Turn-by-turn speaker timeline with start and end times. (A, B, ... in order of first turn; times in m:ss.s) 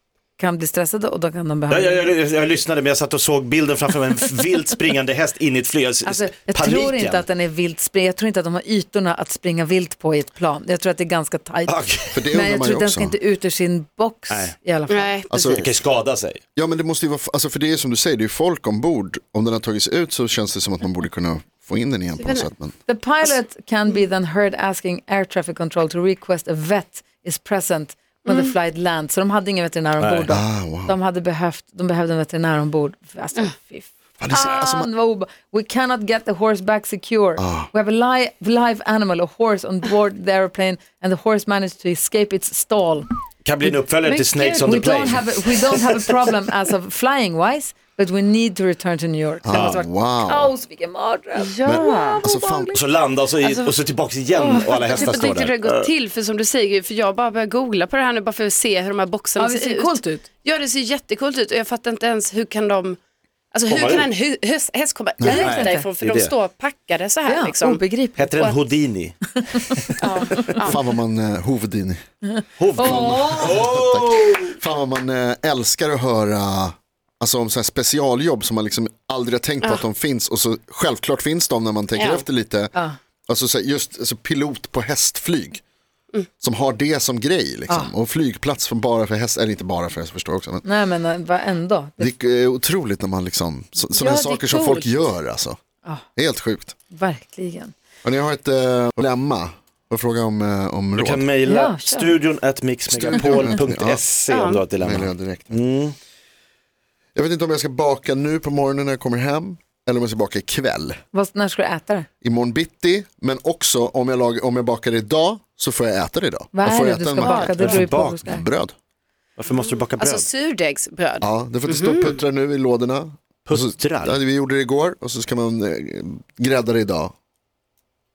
0:00.4-0:02.1 A
0:01.7-0:07.2 B
0:06.0-0:15.2 A
0:11.7-0:12.2 B
0:12.1-0:13.2 C
0:14.3-0:14.5 B
0:14.9-0:15.7 D
0:15.3-0:15.7 C
0:15.6-0:16.4 B
0:16.6-0:22.8 C
0:22.2-0:22.5 D
0:22.9-0:43.0 A
0:28.2-0:28.5 D
0:30.0-0:30.3 B
0:30.3-0:31.0 C
0:34.2-0:34.9 C
0:37.4-0:37.7 C
0:43.4-0:45.8 B
0:44.0-0:44.8 D
0:44.6-0:52.8 A
0:49.4-0:50.5 C
0:49.5-0:49.8 B
0:51.4-0:52.2 D
0:51.6-0:52.8 C
0:52.7-0:55.9 B
0:53.4-0:53.7 D
0:54.3-1:03.0 D
0:54.5-0:55.1 A
0:59.4-1:00.2 A
1:03.5-1:07.8 D
1:03.7-1:04.1 B
1:05.3-1:05.8 A
1:05.3-1:06.3 B
1:07.2-1:08.2 A
1:08.2-1:09.2 B
1:08.4-1:08.6 D
1:10.0-1:10.8 D
1:10.3-1:10.6 A
1:10.5-1:12.0 C
1:12.6-1:14.5 B
1:12.8-1:13.6 A
1:12.8-1:22.7 C
1:22.0-1:22.2 D
1:23.3-1:25.6 C
1:26.4-1:30.6 C
1:30.6-1:32.1 A
1:32.0-1:35.6 C
1:33.9-1:35.1 D
1:36.2-1:36.7 C
1:36.9-1:37.7 A
1:38.0-1:41.3 C
1:41.0-1:45.9 B
1:41.4-1:42.1 A
1:42.9-1:44.0 C
1:44.3-1:44.6 D
1:44.8-1:45.6 C
1:47.1-1:51.0 C
1:51.1-1:52.1 A
1:52.2-1:58.7 C
1:56.5-1:58.4 A
1:57.2-1:58.2 B
1:59.4-2:00.3 B
1:59.5-2:02.2 D
2:01.2-2:07.1 C
2:03.4-2:04.2 B